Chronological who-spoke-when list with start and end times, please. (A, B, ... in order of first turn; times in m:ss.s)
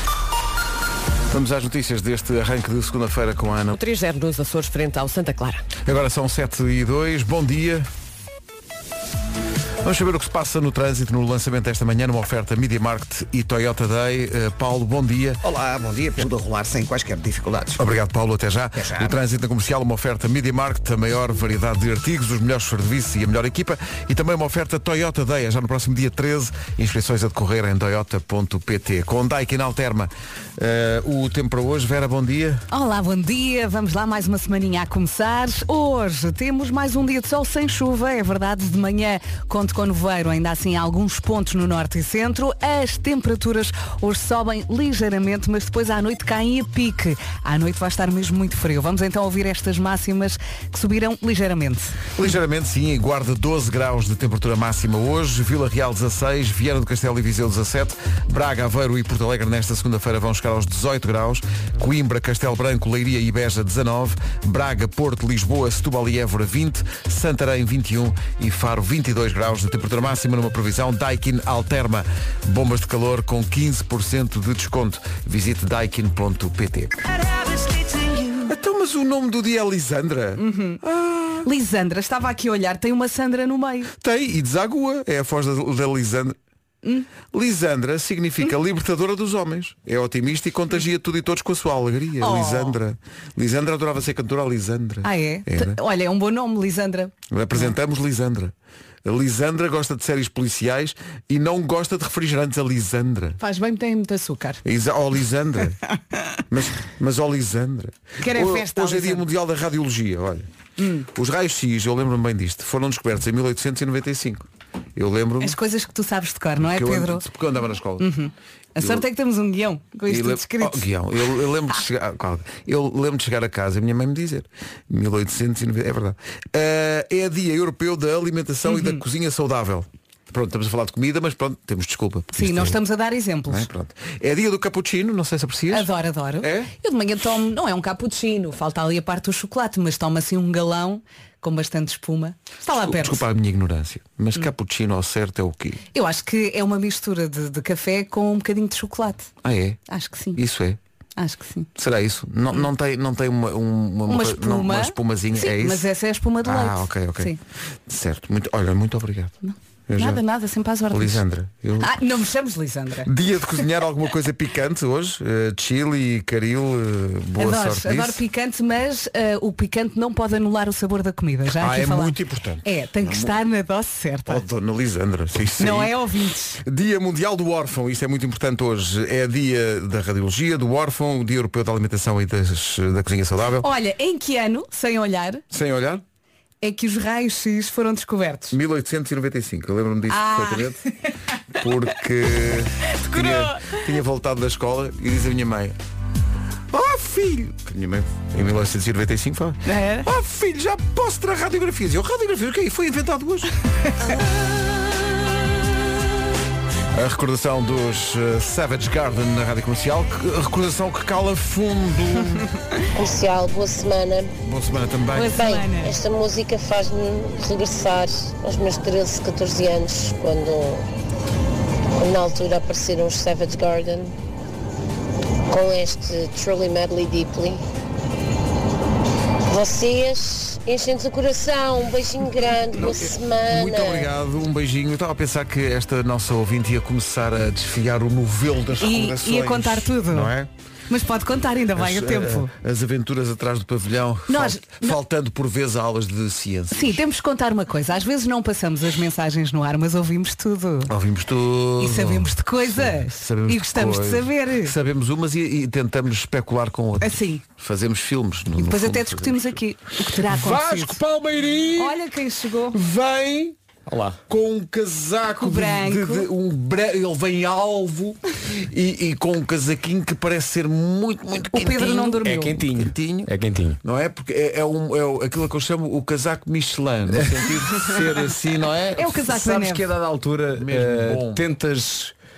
0:01.3-0:03.8 A
0:03.7-0:05.7 B
0:05.8-0:07.9 A
0:09.8-0:15.4 A
0:15.4-0:17.8 C
0:17.8-0:32.7 A
0:18.8-0:19.1 C
0:32.7-0:52.0 D
0:52.1-1:17.0 A
1:17.4-1:18.3 D
1:18.4-1:21.5 A
1:20.4-1:20.8 D
1:21.4-1:23.9 D
1:24.0-1:26.4 A
1:27.3-1:35.8 A
1:32.2-1:32.8 D
1:35.0-1:37.7 D
1:37.3-1:43.4 A
1:43.4-1:44.6 D
1:44.6-1:45.8 A
1:46.5-1:50.5 A
1:48.2-1:49.2 D
1:50.8-1:51.1 D
1:51.1-1:55.6 A
1:55.4-1:57.2 D
1:56.6-1:58.1 A
1:58.0-2:00.8 D
1:58.8-1:59.0 A
2:00.1-2:12.8 A
2:08.7-2:09.0 D
2:12.3-2:13.7 D
2:13.5-2:15.9 A
2:15.7-2:23.2 D
2:16.4-2:16.7 A
2:22.7-2:25.8 A
2:25.9-2:29.3 D
2:29.4-2:29.8 A
2:29.9-2:30.4 D
2:30.3-2:30.8 A
2:31.2-2:31.7 D
2:31.8-2:35.8 A
2:34.1-2:37.4 D
2:36.4-2:37.3 A
2:37.9-2:39.3 A
2:39.4-2:41.2 D
2:39.9-2:40.2 A
2:40.9-2:42.0 A
2:41.8-2:43.1 D
2:43.0-2:48.2 A
2:47.4-2:54.4 D
2:51.6-2:53.4 A
2:54.3-2:56.0 A
2:55.6-2:56.6 D
2:56.6-3:03.7 A
3:03.6-3:05.4 D
3:05.5-3:06.0 A
3:06.6-3:08.6 D
3:08.5-3:10.8 A
3:10.1-3:11.1 D
3:11.5-3:15.8 A
3:12.8-3:13.8 D
3:16.7-3:23.5 A
3:19.6-3:20.1 D
3:23.9-3:24.2 D
3:24.1-3:24.5 A
3:26.9-3:32.5 A
3:32.9-3:34.3 E
3:34.4-3:35.5 A
3:35.1-3:35.9 D
3:35.3-3:40.8 E
3:42.0-3:44.1 E
3:45.5-3:47.6 E
3:49.5-3:54.1 E
3:52.8-4:00.5 A
3:58.8-4:00.3 D
4:00.9-4:02.5 D
4:01.8-4:07.0 A
4:04.3-4:05.0 D
4:06.7-4:10.9 D
4:10.9-4:19.6 A
4:11.8-4:14.8 D
4:17.0-4:17.4 D
4:18.6-4:21.0 D
4:20.1-4:22.0 A
4:21.8-4:22.8 D
4:22.7-4:23.6 A
4:23.9-4:24.2 F
4:24.3-4:39.2 A
4:25.4-4:26.3 D
4:31.4-4:32.6 D
4:32.2-4:33.8 F
4:39.0-4:39.9 D
4:39.2-4:42.1 F
4:40.6-4:41.4 A